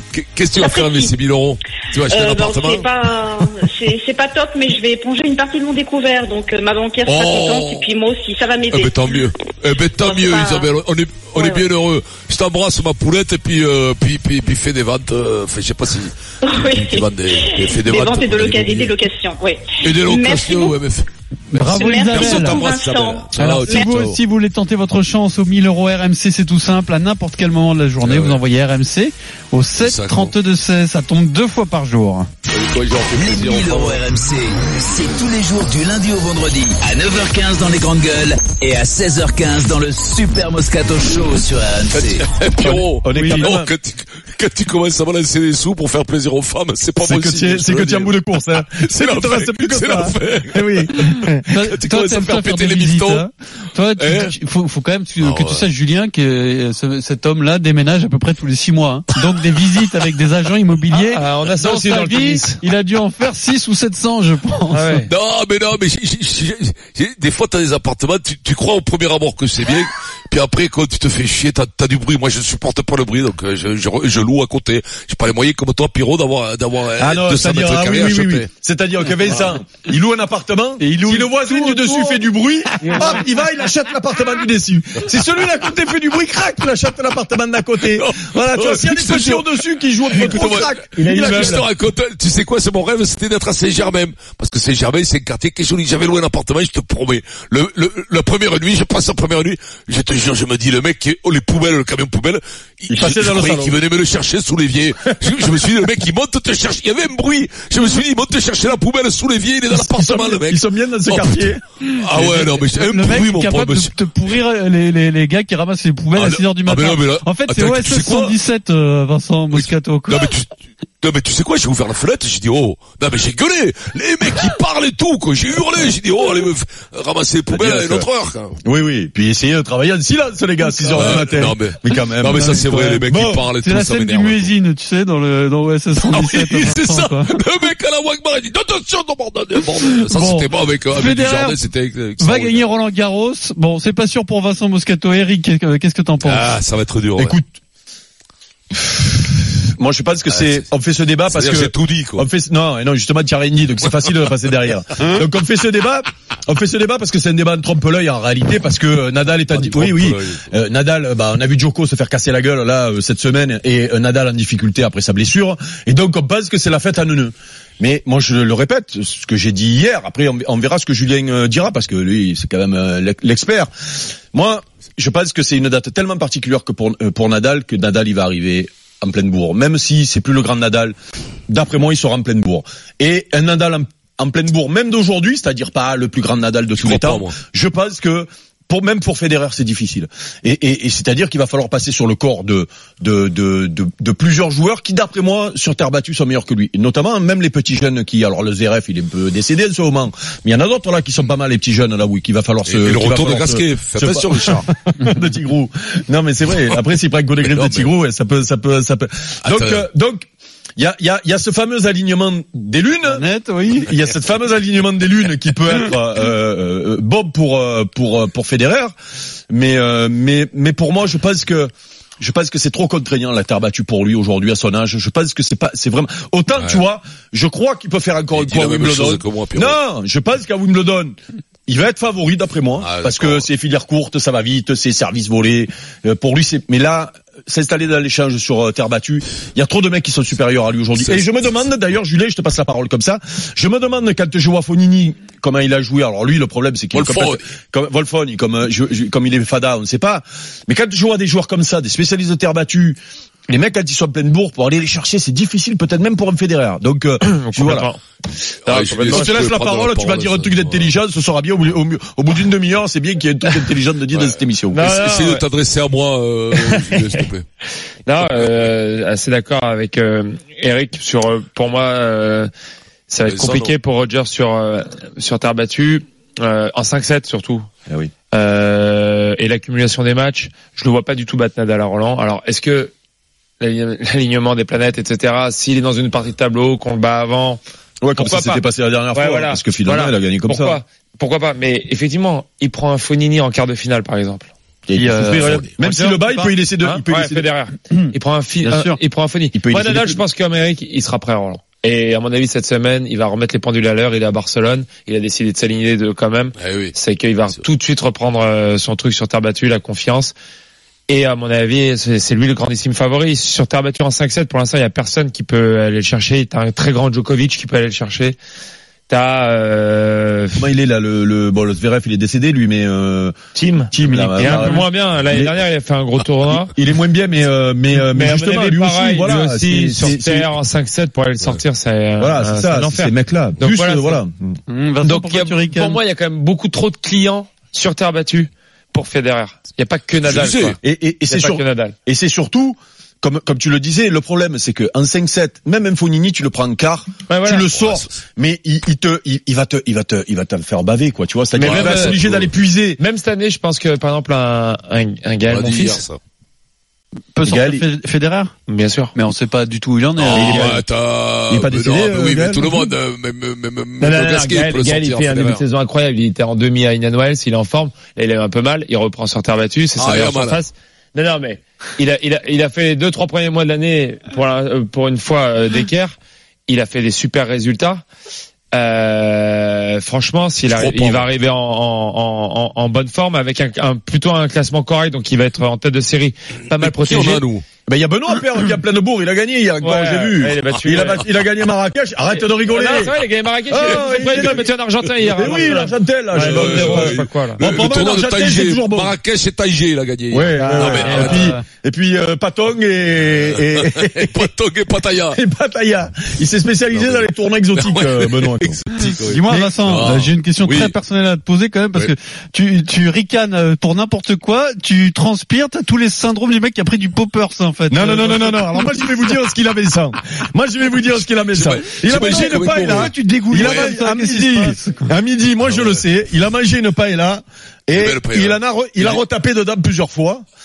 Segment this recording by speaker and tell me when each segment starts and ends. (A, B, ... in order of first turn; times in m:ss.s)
0:00.1-0:03.4 A
0:00.6-0:01.1 B
0:02.1-0:09.3 B
0:07.0-0:07.9 A
0:08.7-0:19.0 A
0:10.0-0:10.7 B
0:11.4-0:11.7 B
0:16.4-0:20.8 B
0:19.8-0:24.2 A
0:21.5-0:22.6 C
0:21.8-0:23.9 B
0:23.3-0:32.3 C
0:28.0-0:28.4 A
0:29.8-0:30.3 A
0:32.5-0:34.0 A
0:33.1-0:42.2 D
0:41.9-0:48.1 A
0:42.6-0:43.7 E
0:43.2-0:43.5 C
0:47.0-0:51.5 E
0:48.7-0:51.1 A
0:51.5-1:05.0 C
0:51.7-0:53.3 A
0:54.0-0:54.3 A
0:55.2-0:55.7 A
1:00.9-1:02.6 F
1:04.7-1:05.1 F
1:05.1-1:18.5 A
1:17.0-1:31.7 E
1:20.8-1:22.2 C
1:22.8-1:23.2 C
1:28.0-1:29.5 A
1:30.0-1:53.9 A
1:42.9-1:43.8 E
1:49.7-1:51.6 E
1:52.2-2:00.3 C
1:56.2-1:58.3 A
1:59.5-2:08.6 A
2:07.5-2:08.1 E
2:08.6-2:12.5 E
2:10.7-2:11.2 C
2:10.9-2:14.5 A
2:12.3-2:17.3 C
2:13.1-2:13.4 E
2:16.0-2:22.7 A
2:19.8-2:21.6 C
2:22.2-2:26.5 C
2:26.2-2:27.4 A
2:27.2-2:27.5 E
2:28.8-2:53.7 E
2:30.3-2:30.6 A
2:31.3-2:32.2 A
2:39.5-2:40.4 A
2:54.3-3:01.0 E
3:01.5-3:33.2 E
3:06.8-3:07.3 A
3:22.7-3:24.7 A
3:27.4-3:27.9 A
3:29.4-3:29.8 A
3:33.1-3:33.9 C
3:33.8-3:38.9 E
3:39.5-3:51.2 E
3:46.6-3:46.8 A
3:48.4-3:49.8 A
3:51.7-4:17.9 E
3:52.8-3:53.5 A
4:01.0-4:01.2 A
4:06.9-4:07.4 A
4:17.2-4:18.0 F
4:18.7-4:20.9 A
4:18.7-4:19.5 F
4:19.1-4:25.0 E
4:24.7-4:25.4 F
4:24.9-4:27.5 A
4:26.6-4:27.2 F
4:28.1-4:32.5 F
4:28.2-4:28.7 A
4:33.1-4:37.7 F
4:33.2-4:33.7 A
4:38.3-4:42.9 F
4:43.6-4:47.6 F
4:48.0-4:50.8 E
4:48.2-4:54.5 F
4:54.9-4:57.5 E
4:55.0-4:55.6 C
4:55.8-5:10.4 F
4:58.6-4:59.0 C
4:59.5-5:00.2 E
5:06.6-5:07.0 A
5:11.1-5:18.4 F
5:19.1-5:20.6 F
5:20.6-5:23.4 E
5:23.6-5:26.7 F
5:23.9-5:25.6 E
5:24.3-5:24.8 C
5:26.5-5:30.5 E
5:27.9-5:34.2 F
5:32.2-5:34.6 E
5:34.7-5:36.0 C
5:35.0-5:40.8 F
5:40.2-5:40.8 A
5:40.8-5:53.0 E
5:41.3-5:42.0 F
5:47.3-5:47.7 F
5:47.8-5:48.1 A
5:51.6-5:56.0 F
5:51.6-5:52.2 A
5:55.5-5:56.2 A
5:57.4-5:58.5 C
5:57.4-5:57.8 E
5:58.7-5:59.1 F
5:59.2-6:00.8 C
6:00.2-6:05.6 A
6:00.4-6:00.7 E
6:01.5-6:02.9 E
6:04.0-6:16.1 F
6:10.0-6:10.6 A
6:16.7-6:18.0 F
6:18.7-6:27.4 F
6:20.7-6:21.3 A
6:26.7-6:27.6 A
6:27.9-6:33.2 E
6:29.8-6:31.3 F
6:32.3-6:37.6 F
6:33.7-6:34.7 E
6:35.3-6:39.2 E
6:36.3-6:41.5 A
6:40.3-6:44.5 E
6:40.6-6:41.5 F
6:41.1-6:41.6 C
6:43.2-6:45.4 A
6:45.3-6:48.8 E
6:46.9-6:50.9 A
6:49.0-6:58.9 C
6:57.9-7:10.4 E
7:01.5-7:03.9 A
7:02.3-7:05.1 C
7:05.7-7:06.0 A
7:07.9-7:09.2 A